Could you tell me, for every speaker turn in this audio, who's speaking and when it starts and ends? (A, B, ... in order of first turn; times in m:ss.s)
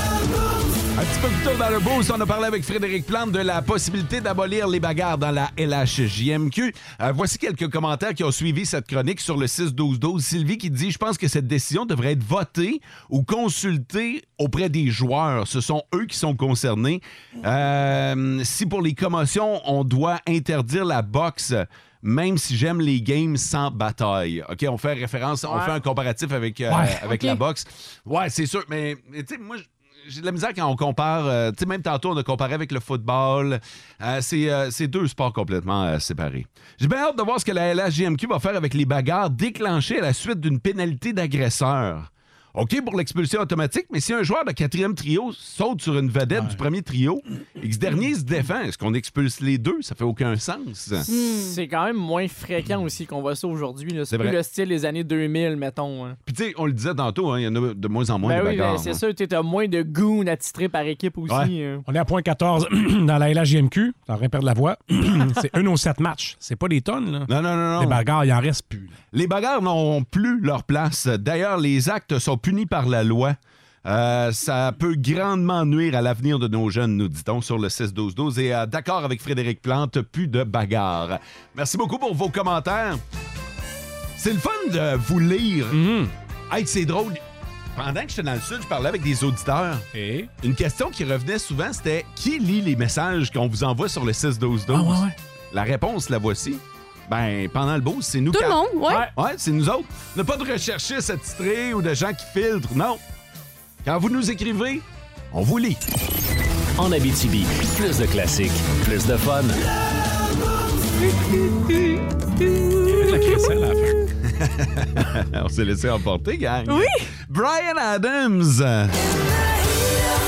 0:01.0-0:51.1 A
0:25.5-0:25.8 B
0:26.7-0:27.0 C
0:27.1-0:27.4 D
0:51.1-0:51.5 D
0:51.1-0:56.2 B
0:54.1-0:54.4 A
0:56.3-0:59.0 A
0:58.2-1:01.8 B
1:01.3-1:01.5 A
1:01.9-1:08.9 C
1:07.3-1:08.0 A
1:09.1-1:23.0 A
1:24.2-1:25.8 A
1:25.7-1:26.1 C
1:26.5-1:27.2 A
1:27.8-1:29.9 A
1:29.9-1:30.3 C
1:30.4-1:38.6 A
1:34.7-1:35.2 C
1:38.3-1:39.1 D
1:38.9-1:39.1 B
1:39.1-1:43.0 A
1:43.8-1:45.8 A
1:46.8-1:49.6 E
1:52.8-1:54.0 C
1:54.3-1:59.0 A
1:56.7-1:57.0 D